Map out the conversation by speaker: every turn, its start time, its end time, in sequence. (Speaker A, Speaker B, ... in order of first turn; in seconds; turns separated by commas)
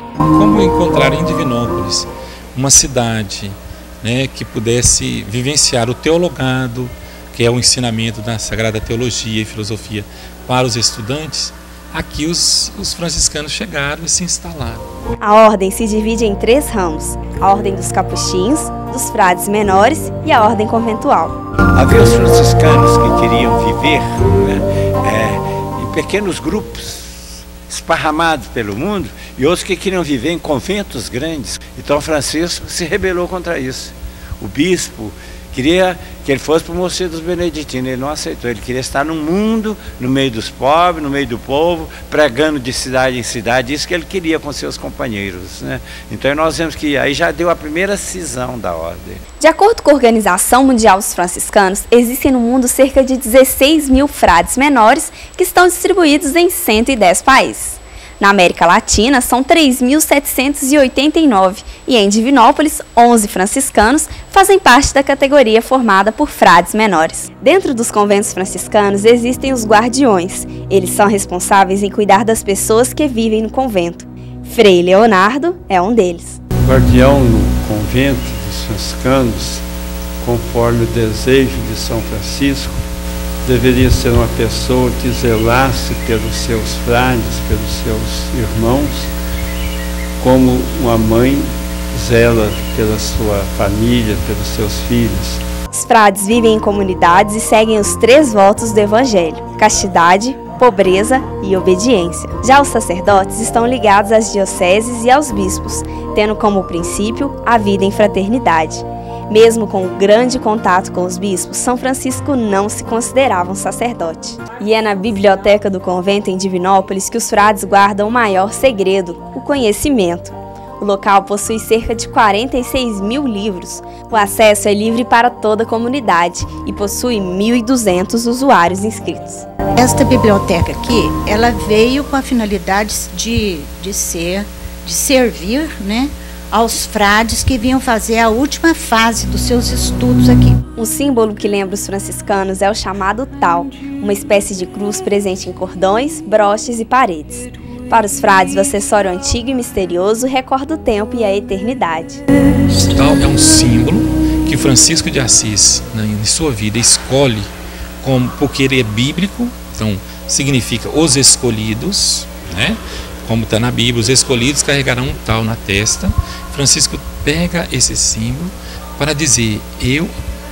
Speaker A: 0.2-14.8, Speaker B: 15.2-21.4, Speaker C: 21.7-49.2, Speaker B: 49.4-76.4, Speaker D: 76.6-79.6, Speaker D: 80.2-82.8, Speaker D: 83.4-89.1, Speaker D: 90.2-95.4, Speaker B: 95.7-129.4, Speaker E: 129.8-140.6, Speaker B: 140.8-152.2, Speaker A: 152.8-157.5, Speaker A: 158.0-170.1